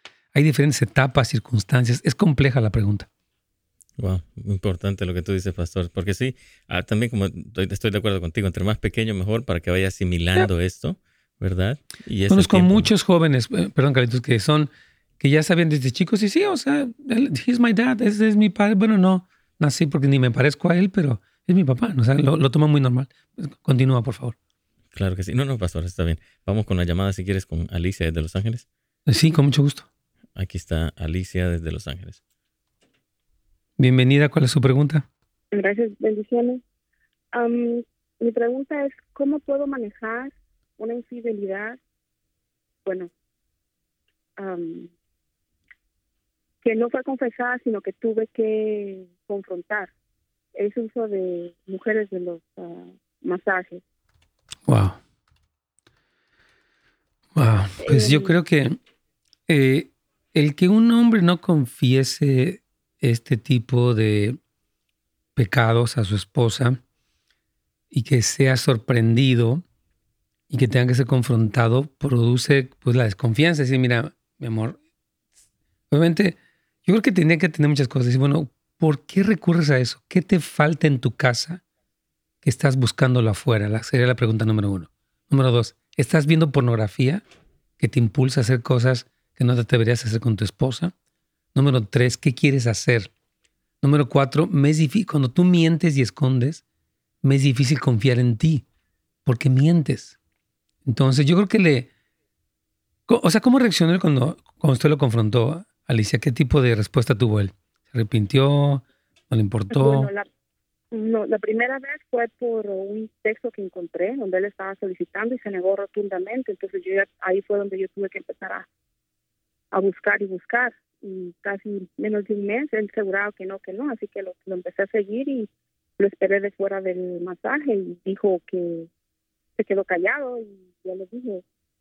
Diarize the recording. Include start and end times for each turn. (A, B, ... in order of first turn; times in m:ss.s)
0:00.3-0:03.1 A
0:04.0-0:12.9 B
0:12.3-0:24.4 A
0:24.9-0:28.6 B
0:29.1-0:29.9 A
0:30.4-0:32.2 B
0:33.8-0:35.1 A
0:35.5-0:36.6 C
0:37.3-0:41.8 C
0:42.8-0:43.1 C
0:44.4-0:44.9 C
0:46.6-0:49.9 C
0:50.5-0:53.8 C
0:54.7-0:55.0 A
0:57.4-0:58.8 A
0:57.8-0:58.3 C
0:59.5-1:04.4 A
1:05.4-1:06.8 A
1:07.9-1:09.6 A
1:10.5-1:14.8 A
1:15.9-1:21.6 A
1:22.4-1:27.2 A
1:27.8-1:30.9 A
1:31.5-1:33.1 A
1:33.8-1:36.6 A
1:37.2-1:38.6 A
1:39.2-1:40.2 A
1:40.8-1:41.9 A
1:43.1-1:50.1 A
1:49.7-1:50.3 C
1:50.9-1:58.6 C
1:59.7-2:08.9 C
2:09.6-2:11.4 C